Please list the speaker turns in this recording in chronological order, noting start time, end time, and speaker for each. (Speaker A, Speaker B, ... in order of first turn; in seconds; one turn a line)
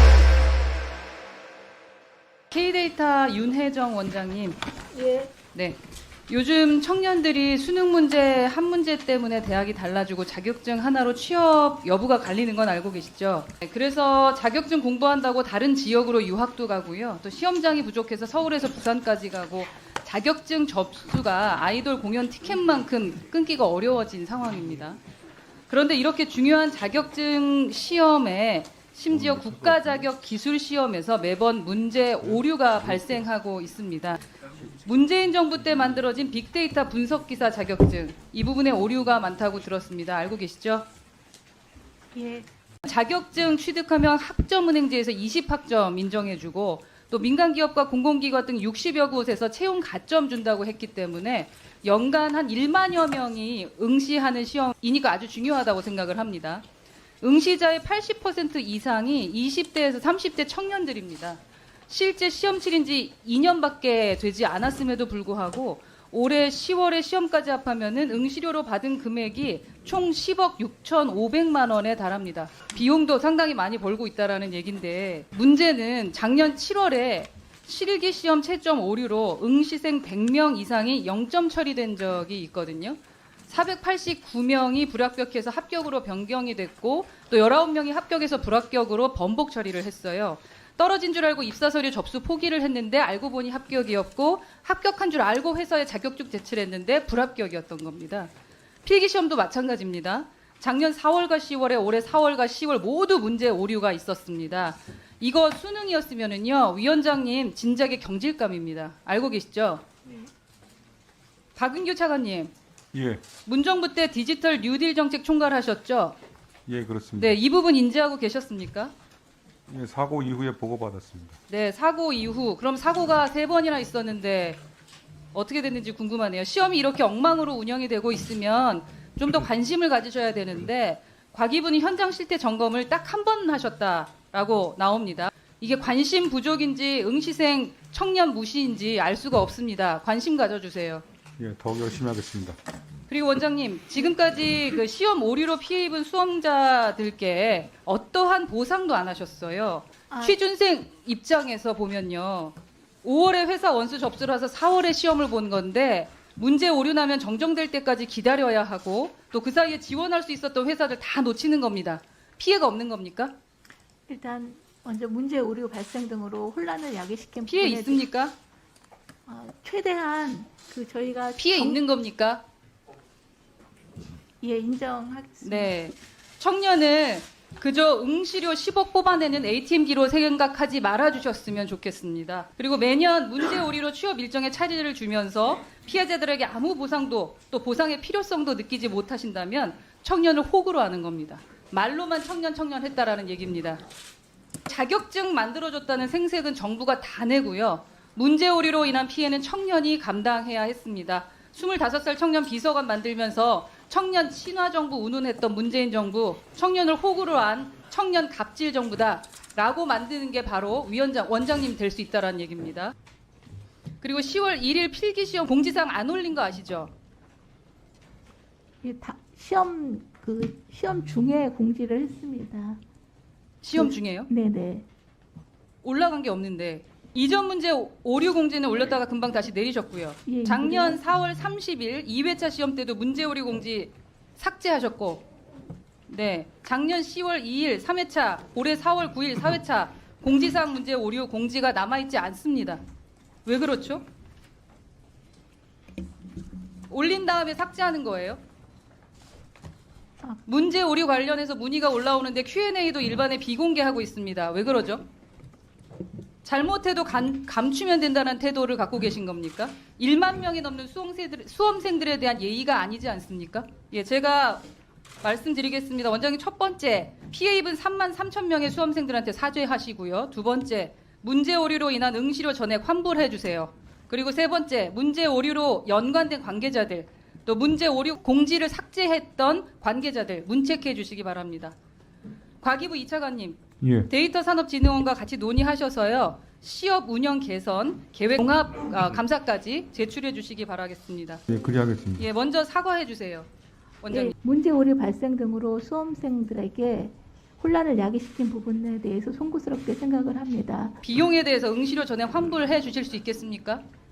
Speaker A: 2.5-4.6
Speaker B: 4.9-5.3
Speaker A: 6.3-25.0
Speaker A: 25.7-34.2
Speaker A: 34.8-40.9
Speaker B: 42.1-42.5
Speaker A: 42.8-56.6
Speaker A: 57.2-98.3
Speaker A: 98.8-109.8
Speaker A: 111.5-112.5
Speaker C: 112.9-113.2
Speaker A: 113.4-116.2
Speaker C: 116.7-117.4
Speaker A: 117.2-118.9
Speaker C: 119.7-121.3
Speaker A: 121.5-124.6
Speaker A: 125.3-141.0
Speaker C: 141.4-142.6
Speaker A: 143.1-163.3
Speaker B: 150.1-150.4
Speaker B: 164.1-168.1
Speaker A: 167.5-168.3
Speaker B: 169.3-171.8
Speaker A: 171.4-172.4
Speaker B: 174.4-175.7
Speaker A: 175.4-193.8
Speaker A: 194.7-212.9
Speaker A: 214.0-216.9
Speaker B: 218.8-222.8
Speaker A: 223.6-224.3
Speaker B: 223.8-224.9
Speaker A: 225.8-235.2
Speaker B: 230.3-231.0
Speaker A: 236.1-242.8
Speaker A: 243.4-244.0
Speaker A: 246.9-248.4
Speaker A: 250.4-255.0
Speaker A: 256.4-264.6
Speaker A: 265.2-281.8
Speaker A: 282.6-291.4
Speaker C: 283.8-284.1
Speaker C: 291.5-292.3
Speaker A: 292.2-293.5
Speaker A: 294.0-294.3
Speaker B: 294.1-301.0
Speaker A: 301.0-303.8